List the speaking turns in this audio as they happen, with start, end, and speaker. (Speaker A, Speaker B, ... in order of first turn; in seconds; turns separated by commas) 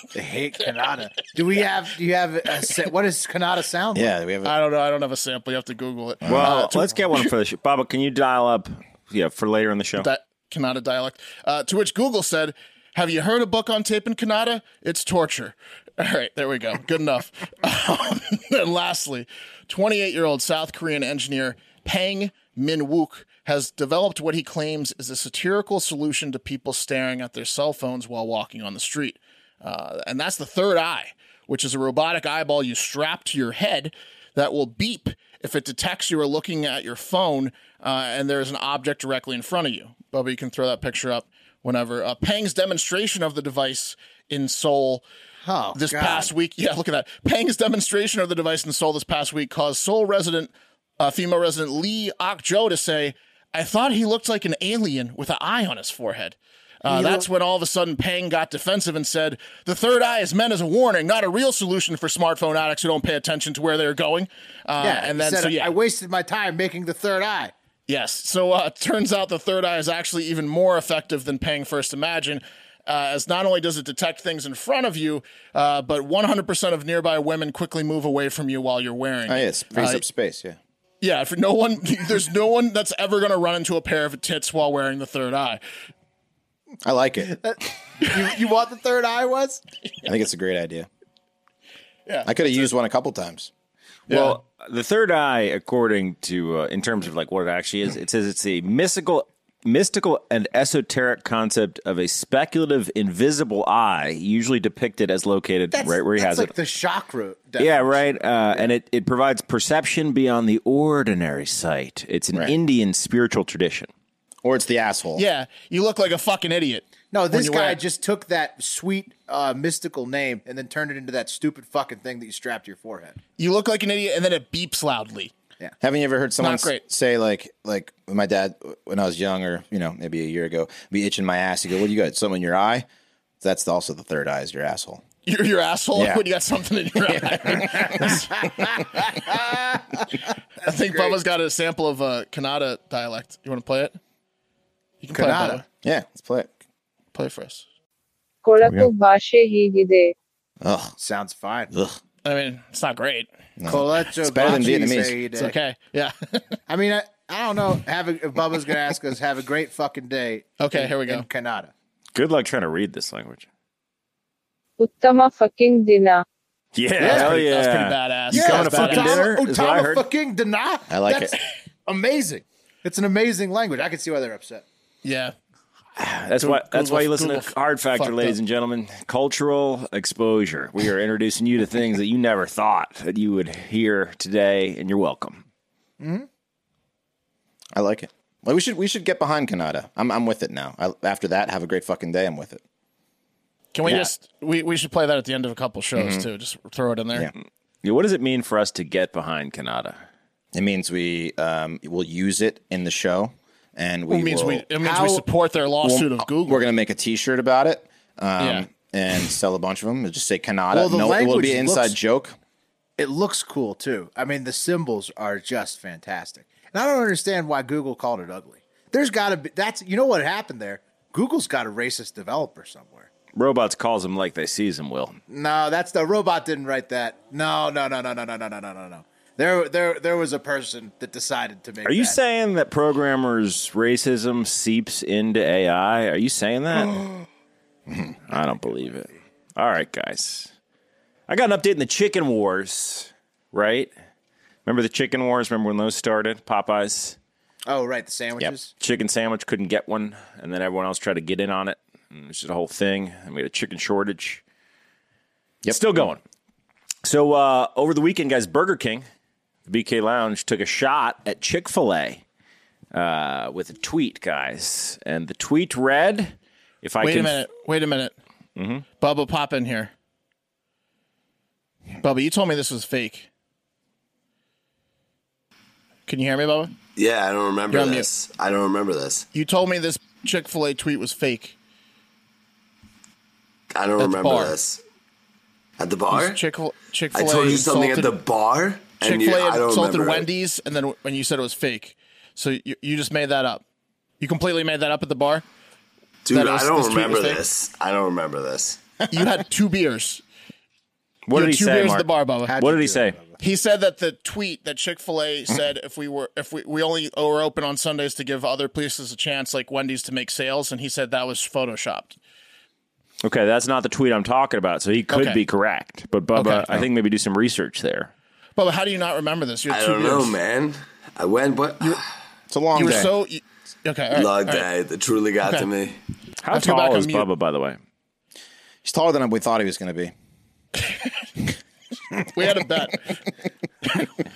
Speaker A: 0.1-4.1, Speaker B: 3.9-4.5, Speaker C: 4.4-7.3, Speaker B: 6.2-6.5, Speaker D: 6.2-10.1, Speaker C: 10.0-45.0, Speaker A: 45.4-46.3, Speaker C: 45.7-65.7, Speaker A: 56.9-57.3, Speaker A: 64.8-67.5, Speaker C: 67.9-80.0, Speaker B: 79.3-80.6, Speaker C: 81.0-85.6, Speaker B: 86.8-87.4, Speaker A: 87.3-89.6, Speaker B: 90.0-90.9, Speaker C: 92.0-92.4, Speaker B: 92.2-93.5, Speaker C: 94.1-94.4, Speaker D: 94.1-106.5, Speaker A: 105.7-108.7, Speaker D: 107.6-113.9, Speaker B: 114.4-115.2, Speaker C: 115.2-117.8, Speaker A: 117.1-123.2, Speaker C: 123.4-125.3, Speaker B: 125.8-132.8, Speaker C: 126.4-126.8, Speaker B: 133.4-135.0, Speaker C: 135.2-138.4, Speaker B: 135.9-136.2, Speaker B: 137.1-138.3, Speaker A: 139.3-139.8, Speaker C: 140.6-144.0, Speaker A: 140.7-141.2, Speaker C: 145.0-145.6, Speaker A: 145.1-145.6, Speaker B: 145.8-146.5, Speaker C: 147.1-147.6, Speaker E: 148.4-150.1, Speaker B: 150.6-150.9, Speaker A: 151.0-151.7, Speaker B: 151.7-152.0, Speaker C: 152.2-153.3, Speaker B: 153.6-155.2, Speaker A: 153.7-155.6, Speaker C: 155.3-156.6, Speaker A: 156.7-161.7, Speaker C: 160.6-161.2, Speaker D: 162.1-163.4, Speaker E: 164.8-166.2, Speaker D: 166.7-170.1, Speaker C: 167.0-169.2, Speaker A: 167.0-167.3, Speaker A: 168.3-174.6, Speaker B: 170.9-171.3, Speaker C: 175.0-175.3, Speaker D: 176.0-185.4, Speaker C: 176.4-178.4, Speaker A: 186.0-186.3, Speaker B: 187.7-192.6, Speaker C: 193.7-197.3, Speaker B: 193.8-194.1, Speaker B: 195.9-196.3, Speaker D: 197.8-200.0, Speaker B: 200.5-204.7, Speaker C: 204.1-206.7, Speaker A: 204.8-205.2, Speaker B: 205.8-212.3, Speaker C: 208.4-208.7, Speaker A: 210.7-212.0, Speaker A: 213.0-223.1, Speaker D: 223.3-225.2, Speaker A: 225.3-232.2, Speaker D: 231.8-237.0, Speaker D: 238.3-240.5, Speaker D: 241.3-243.9, Speaker D: 244.7-247.2, Speaker A: 247.7-248.7, Speaker D: 248.8-254.4, Speaker D: 255.7-256.2, Speaker D: 257.0-259.0, Speaker D: 259.7-262.2, Speaker D: 262.9-267.4, Speaker C: 267.0-268.1, Speaker D: 268.6-268.8, Speaker C: 269.0-269.9, Speaker C: 272.0-273.3, Speaker C: 276.1-276.7, Speaker F: 276.9-279.2, Speaker C: 277.7-278.1, Speaker C: 279.3-281.6, Speaker F: 283.7-284.8, Speaker C: 284.0-284.6, Speaker F: 285.8-286.4, Speaker C: 286.1-288.2, Speaker F: 287.1-290.3, Speaker C: 289.0-293.6, Speaker C: 294.2-295.4, Speaker F: 296.2-298.8, Speaker C: 296.3-297.4, Speaker C: 299.1-300.2, Speaker D: 301.3-303.2, Speaker C: 301.3-302.6, Speaker A: 302.4-303.4, Speaker C: 303.4-312.2, Speaker D: 313.2-318.1, Speaker C: 315.1-315.4, Speaker C: 316.3-316.8, Speaker C: 318.6-320.4, Speaker F: 319.7-322.0, Speaker B: 322.5-323.1, Speaker C: 322.7-324.7, Speaker F: 324.1-326.0, Speaker D: 326.4-327.8, Speaker C: 326.5-327.3, Speaker B: 328.8-330.1, Speaker C: 332.3-333.2